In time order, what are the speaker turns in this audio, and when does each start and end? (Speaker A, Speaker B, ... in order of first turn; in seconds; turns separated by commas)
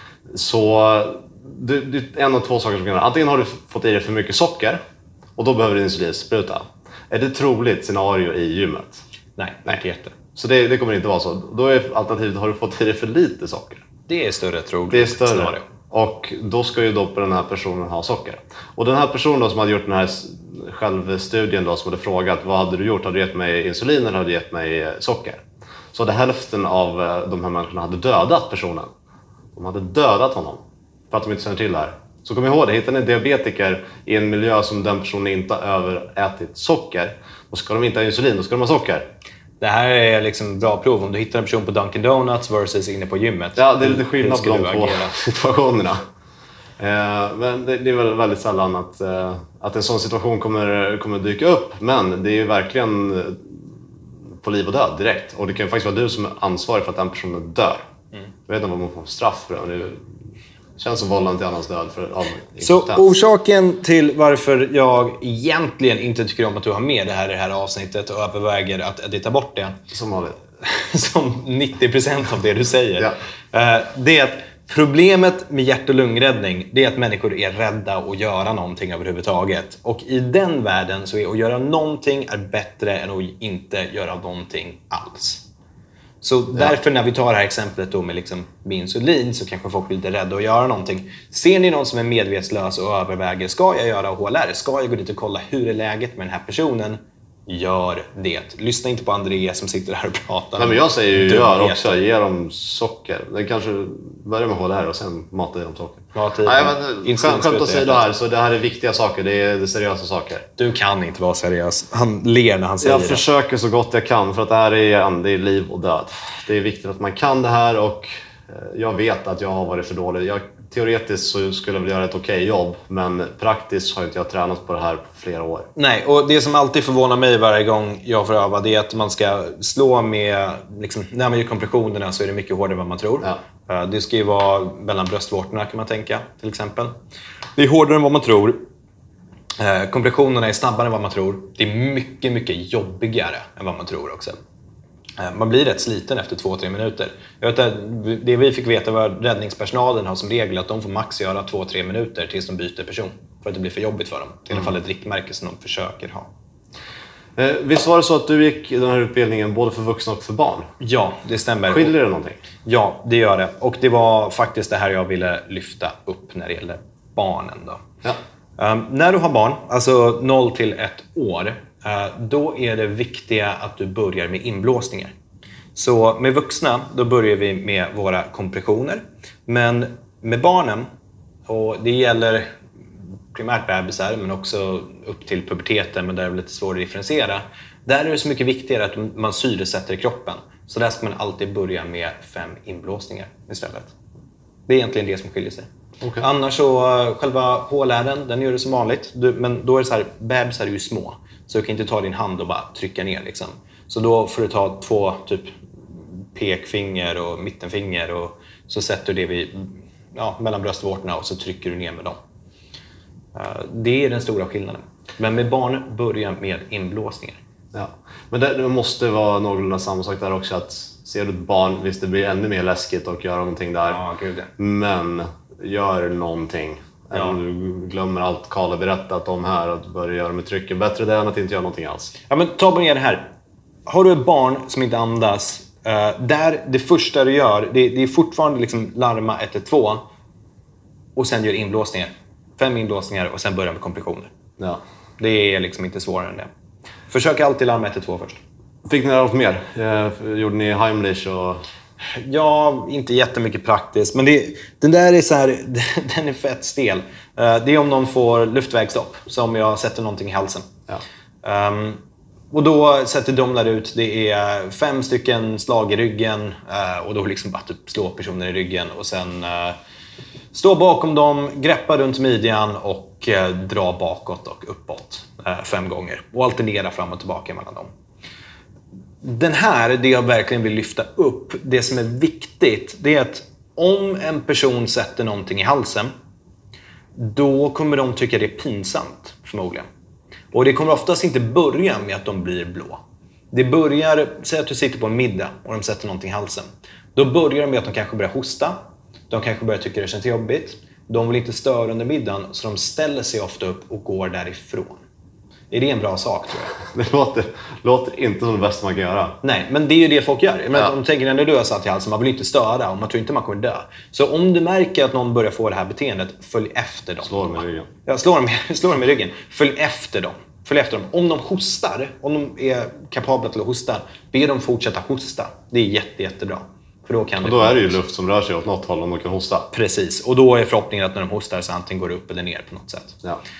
Speaker A: 0.3-4.8, Speaker A: 5.4-9.0, Speaker B: 9.4-10.2, Speaker A: 10.3-13.8, Speaker B: 14.1-15.7, Speaker A: 14.9-28.9, Speaker A: 29.5-39.1, Speaker B: 39.6-45.1, Speaker A: 43.5-46.0, Speaker A: 46.8-53.6, Speaker A: 54.4-57.8, Speaker A: 58.5-60.0, Speaker A: 60.8-63.1, Speaker B: 62.6-69.8, Speaker A: 69.9-70.4, Speaker B: 70.6-85.4, Speaker B: 86.2-102.0, Speaker A: 100.6-110.5, Speaker B: 106.1-108.0, Speaker B: 110.6-113.2, Speaker A: 112.8-125.7, Speaker B: 125.8-136.9, Speaker B: 137.6-138.6, Speaker B: 139.6-144.3, Speaker B: 145.2-156.3, Speaker A: 157.3-160.7, Speaker B: 160.8-161.9, Speaker A: 161.7-162.4, Speaker B: 162.6-167.8, Speaker B: 168.6-175.1, Speaker B: 175.7-180.9, Speaker B: 181.5-182.5, Speaker B: 183.3-193.9, Speaker B: 194.7-195.7, Speaker A: 196.0-196.2, Speaker B: 196.2-205.5, Speaker B: 206.1-212.2, Speaker B: 213.3-217.4, Speaker A: 217.7-224.0, Speaker B: 223.8-224.5, Speaker A: 224.6-232.1, Speaker B: 232.3-233.3, Speaker B: 233.9-240.0, Speaker B: 241.2-244.3, Speaker B: 245.2-246.5, Speaker B: 247.1-248.4, Speaker A: 248.8-251.6, Speaker B: 252.0-260.7, Speaker B: 261.4-262.0, Speaker B: 262.5-269.8, Speaker B: 270.5-277.9, Speaker B: 279.2-286.1, Speaker B: 287.1-289.9, Speaker B: 290.5-293.0, Speaker B: 293.5-298.8, Speaker B: 299.3-305.0, Speaker B: 305.7-306.8, Speaker A: 306.9-309.4, Speaker B: 309.4-327.9, Speaker A: 317.2-317.9, Speaker A: 327.4-329.7, Speaker B: 329.7-333.2